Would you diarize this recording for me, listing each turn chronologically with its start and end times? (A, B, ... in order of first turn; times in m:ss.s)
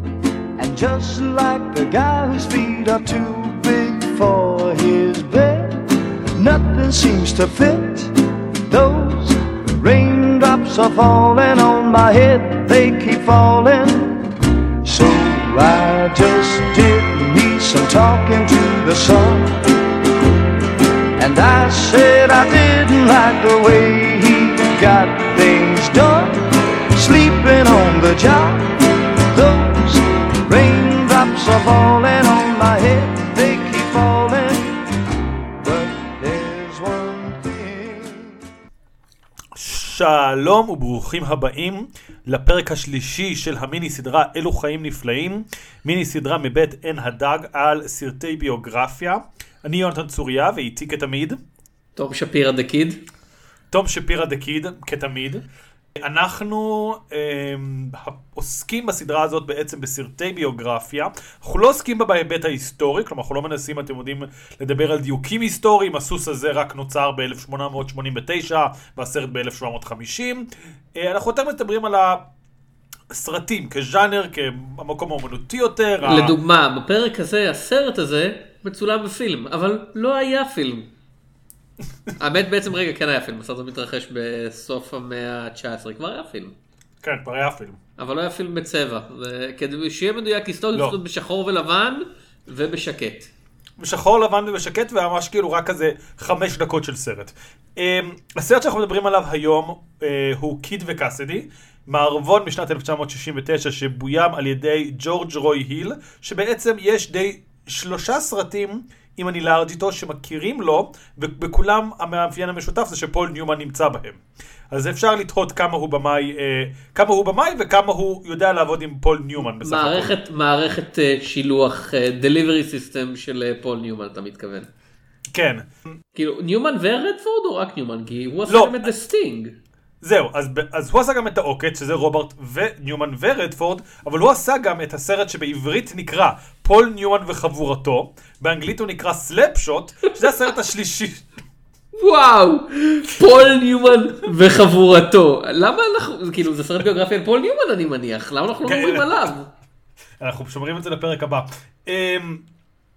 0:00.6-0:08.2 A
0:08.7-0:14.3 A
0:14.8-0:19.7 A
0:21.2-0:34.9 A
0:35.6-0:38.4 A
0:39.6-0:51.4 B
0:52.0-0:53.0 C
0:53.7-0:55.4 B
0:56.0-1:12.3 B
1:13.1-1:16.4 B
1:16.0-1:20.9 C
1:22.2-1:26.6 C
1:27.0-1:27.8 B
1:28.0-1:33.3 C
1:33.8-2:00.2 B
1:59.4-2:04.7 C
2:05.3-2:05.7 B
2:06.2-2:09.6 C
2:08.5-2:08.9 B
2:10.0-2:21.3 B
2:22.0-2:29.5 C
2:28.6-2:29.3 B
2:30.2-2:32.5 B